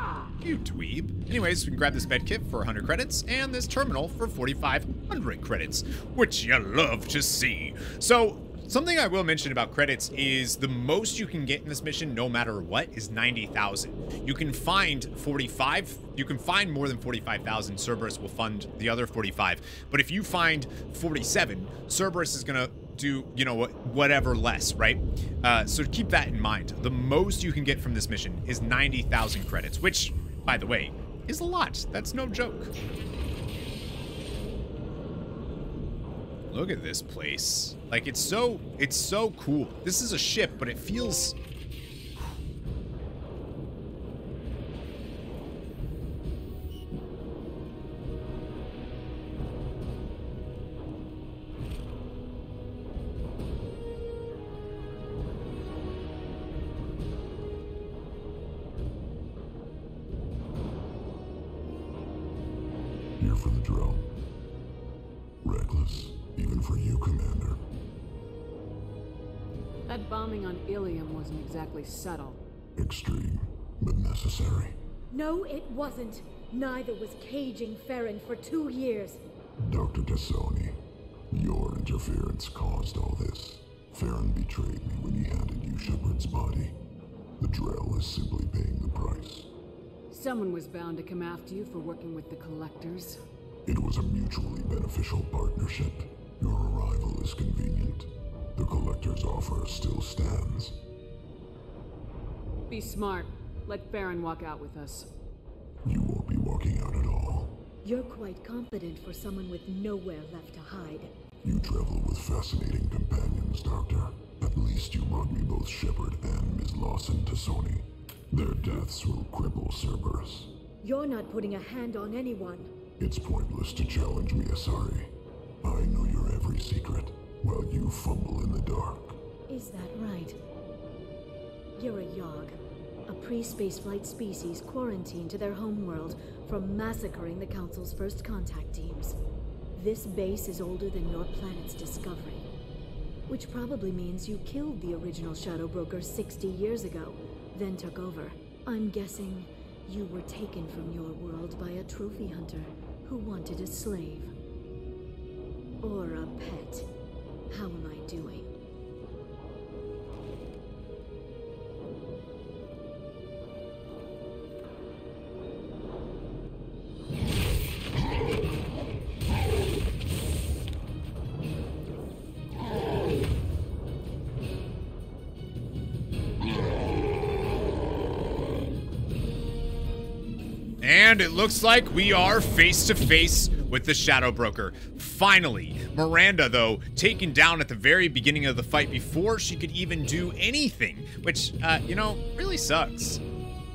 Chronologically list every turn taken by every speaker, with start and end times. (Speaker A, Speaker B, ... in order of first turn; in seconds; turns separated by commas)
Speaker A: 0.4-32.7, Speaker A: 36.5-41.4, Speaker B: 63.2-64.1, Speaker B: 65.4-67.6, Speaker C: 69.9-72.4, Speaker B: 72.8-74.8, Speaker D: 75.1-79.2, Speaker B: 79.6-80.8, Speaker B: 81.3-86.8, Speaker B: 87.4-89.5, Speaker C: 90.1-93.2, Speaker B: 93.7-100.8, Speaker C: 102.7-105.1, Speaker B: 105.8-107.6, Speaker D: 107.8-111.1, Speaker B: 111.4-120.5, Speaker D: 120.8-122.7, Speaker B: 123.0-125.1, Speaker B: 125.6-129.2, Speaker D: 129.5-130.4, Speaker D: 131.8-132.6, Speaker D: 133.1-139.2, Speaker D: 139.8-142.5, Speaker D: 143.3-154.3, Speaker D: 155.8-156.9, Speaker D: 157.5-158.5, Speaker A: 180.8-193.2